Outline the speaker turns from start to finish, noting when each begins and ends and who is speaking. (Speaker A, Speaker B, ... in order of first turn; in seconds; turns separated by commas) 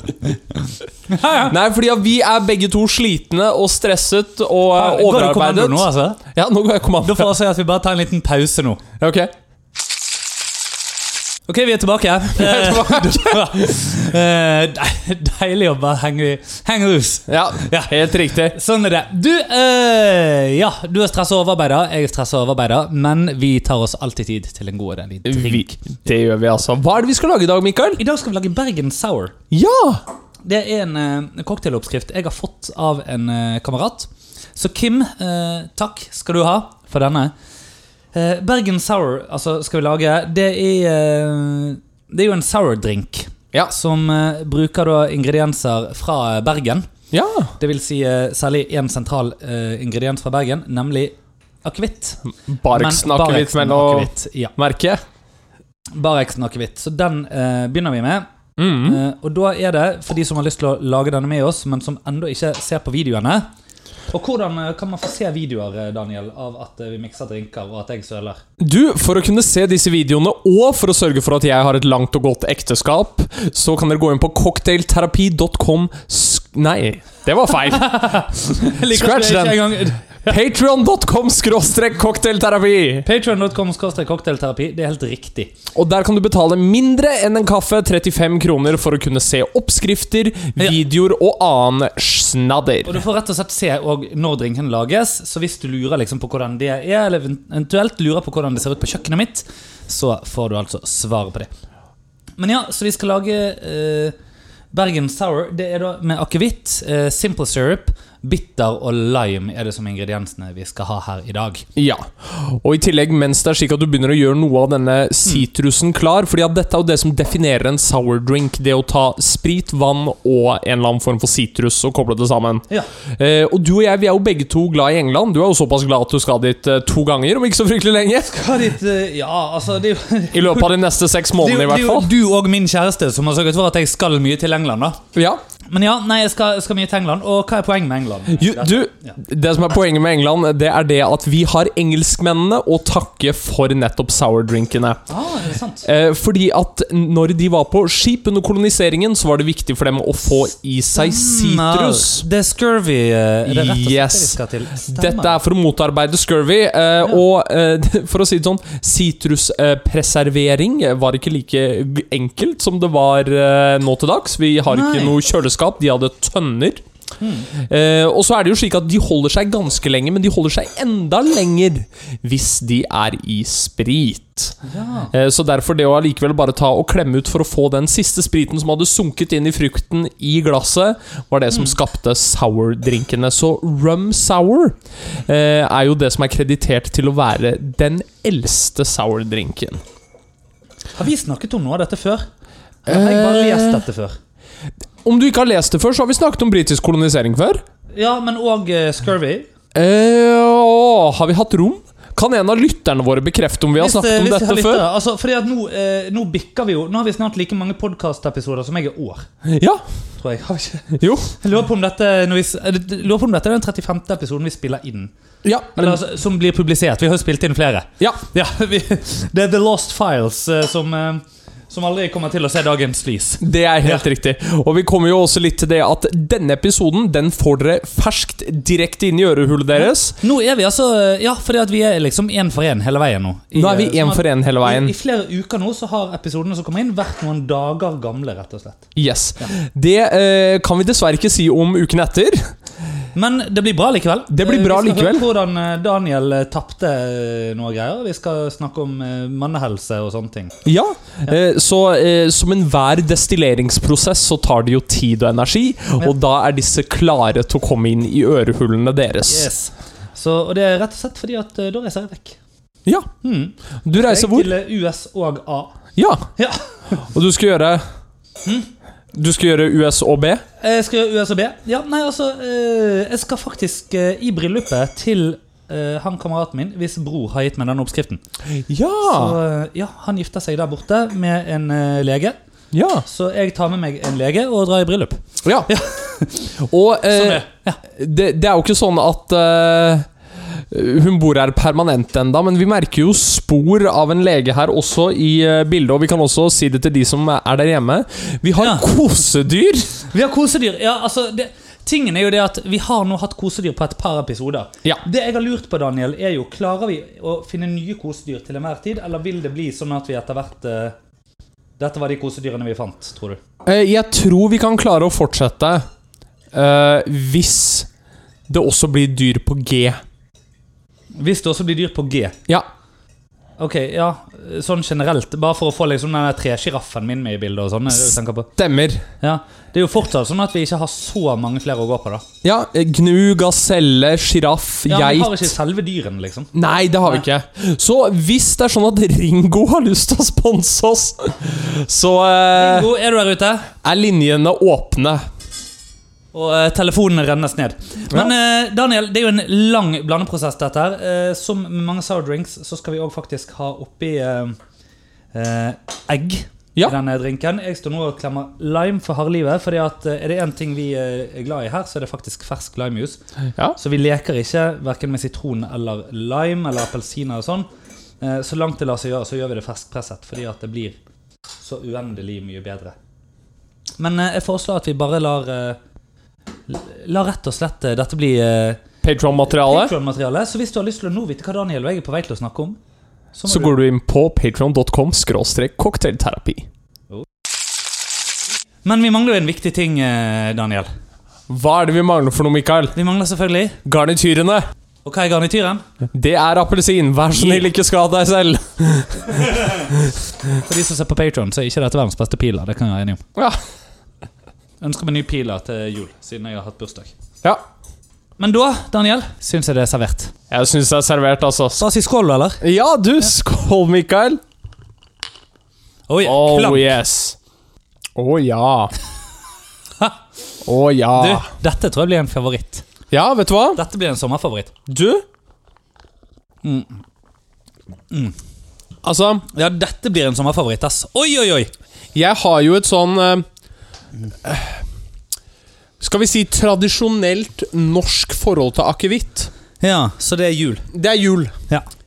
Speaker A: 0.2-0.6, Speaker A: 1.1-1.5, Speaker B: 1.3-7.3, Speaker A: 4.8-6.2, Speaker A: 7.0-8.8, Speaker B: 9.0-9.3, Speaker A: 11.5-25.7, Speaker B: 12.3-13.7, Speaker B: 17.3-18.6, Speaker B: 25.2-28.0, Speaker A: 28.0-29.3, Speaker B: 29.5-30.0, Speaker A: 30.4-37.3, Speaker A: 38.1-46.9, Speaker B: 47.1-47.5, Speaker A: 47.6-54.5, Speaker B: 52.5-55.0, Speaker A: 56.0-58.3, Speaker B: 58.6-59.0, Speaker A: 58.8-63.5, Speaker A: 64.1-68.4, Speaker B: 68.6-83.1, Speaker A: 77.7-80.3, Speaker A: 83.0-85.5, Speaker B: 85.7-93.0, Speaker A: 92.9-101.5, Speaker A: 102.4-104.2, Speaker A: 104.7-111.7, Speaker B: 111.8-122.7, Speaker B: 123.2-128.5, Speaker A: 128.3-130.7, Speaker B: 130.3-132.1, Speaker A: 131.3-135.0, Speaker B: 135.1-135.4, Speaker A: 135.7-139.2, Speaker B: 138.3-145.0, Speaker A: 145.1-145.9, Speaker B: 145.8-152.3, Speaker A: 150.9-155.4, Speaker B: 153.5-166.8, Speaker A: 164.7-165.2, Speaker A: 167.2-167.5, Speaker B: 167.5-174.6, Speaker A: 174.7-175.1, Speaker B: 175.1-189.8, Speaker A: 190.9-192.3, Speaker A: 192.8-194.2, Speaker B: 192.9-193.8, Speaker B: 195.0-197.6, Speaker A: 197.9-199.5, Speaker B: 199.8-204.9, Speaker A: 203.8-209.3, Speaker B: 209.4-209.8, Speaker A: 210.2-215.1, Speaker B: 211.0-211.3, Speaker B: 215.4-216.0, Speaker A: 215.8-224.1, Speaker B: 223.4-230.2, Speaker A: 229.8-238.9, Speaker B: 233.6-234.9, Speaker B: 239.0-242.5, Speaker A: 243.2-250.6, Speaker B: 244.3-245.3, Speaker B: 250.7-259.5, Speaker A: 259.3-262.4, Speaker A: 263.2-265.8, Speaker B: 263.9-264.5, Speaker B: 266.0-266.3, Speaker A: 266.4-267.0, Speaker B: 267.0-267.8, Speaker B: 269.1-270.4, Speaker A: 270.6-278.2, Speaker B: 278.7-279.4, Speaker A: 279.0-282.4, Speaker B: 282.7-283.1, Speaker A: 283.1-286.6, Speaker B: 285.4-285.7, Speaker B: 286.6-290.1, Speaker A: 287.1-287.8, Speaker B: 290.7-300.0, Speaker A: 298.6-298.9, Speaker A: 300.0-310.9, Speaker A: 311.8-313.4, Speaker B: 313.6-315.8, Speaker B: 316.5-317.9, Speaker B: 318.5-320.0, Speaker A: 321.1-322.4, Speaker A: 323.6-328.5, Speaker B: 328.6-329.0, Speaker A: 329.2-332.2, Speaker B: 332.4-335.6, Speaker A: 334.9-336.5, Speaker B: 336.5-342.9, Speaker A: 342.5-343.7, Speaker B: 343.8-345.2, Speaker A: 346.3-354.6, Speaker A: 355.3-363.2, Speaker A: 363.8-367.7, Speaker A: 368.2-371.0, Speaker A: 371.6-372.9, Speaker A: 374.0-375.8, Speaker A: 376.7-378.8, Speaker B: 379.0-379.9, Speaker A: 379.4-382.8, Speaker A: 383.4-383.8, Speaker B: 383.5-386.7, Speaker A: 388.8-390.9, Speaker B: 391.5-393.0, Speaker A: 393.0-393.8, Speaker B: 393.9-394.6, Speaker A: 395.1-395.8, Speaker B: 396.1-400.1, Speaker A: 397.3-397.6, Speaker A: 400.6-403.2, Speaker A: 404.8-407.1, Speaker A: 408.4-410.3, Speaker B: 410.5-411.8, Speaker A: 411.8-412.6, Speaker B: 412.6-414.4, Speaker A: 416.1-416.9, Speaker B: 416.2-417.4, Speaker B: 418.2-418.9, Speaker B: 420.6-421.4, Speaker A: 421.2-422.9, Speaker B: 423.1-423.8, Speaker A: 423.8-424.7, Speaker B: 424.9-425.2, Speaker A: 426.6-427.0, Speaker B: 429.0-429.5, Speaker A: 429.5-431.7, Speaker B: 432.1-433.5, Speaker B: 434.4-434.8, Speaker B: 436.0-439.5, Speaker A: 439.8-440.9, Speaker B: 440.9-441.6